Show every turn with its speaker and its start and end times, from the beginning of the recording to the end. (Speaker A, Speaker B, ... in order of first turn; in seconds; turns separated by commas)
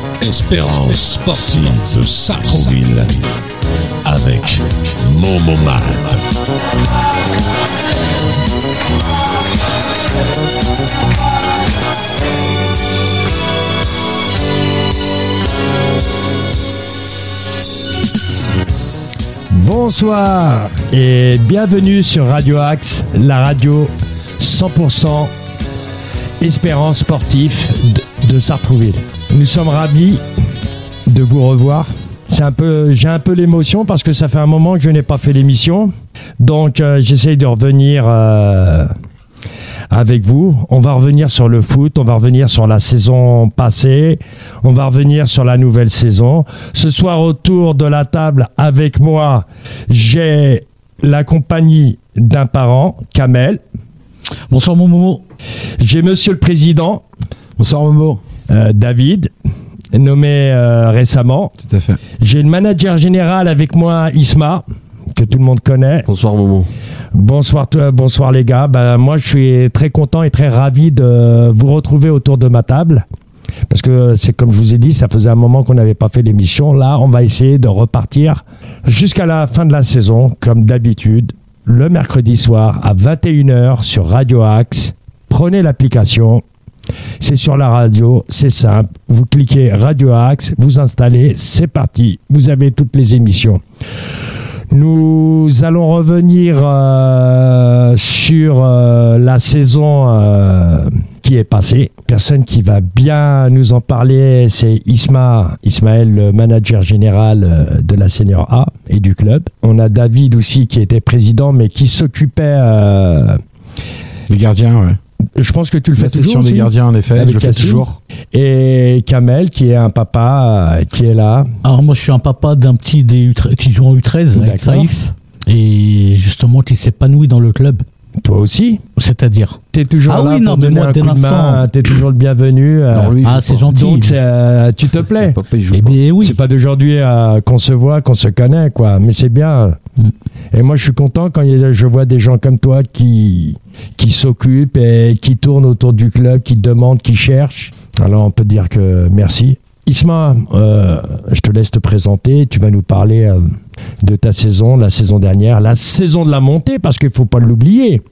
Speaker A: 0.2-3.3, Speaker A: 4.0-6.2, Speaker B: 19.5-25.3, Speaker B: 26.4-30.2, Speaker B: 31.1-38.9, Speaker B: 39.9-53.6, Speaker C: 54.5-55.2, Speaker B: 55.8-57.0, Speaker D: 57.6-58.2, Speaker B: 58.5-59.3, Speaker B: 59.9-61.5, Speaker D: 61.6-62.0, Speaker B: 62.2-66.1, Speaker E: 66.0-66.7, Speaker B: 67.1-73.0, Speaker B: 73.7-86.4, Speaker B: 87.2-93.6, Speaker B: 94.7-113.4, Speaker D: 114.3-115.0, Speaker B: 115.3-121.5, Speaker D: 116.0-118.0, Speaker C: 121.6-127.8, Speaker B: 124.3-124.9, Speaker B: 128.2-128.8, Speaker C: 129.0-131.7, Speaker B: 129.7-135.4, Speaker E: 132.9-133.6, Speaker C: 133.2-134.2, Speaker E: 135.0-136.0, Speaker C: 135.7-136.4, Speaker B: 136.2-139.8, Speaker B: 140.5-158.0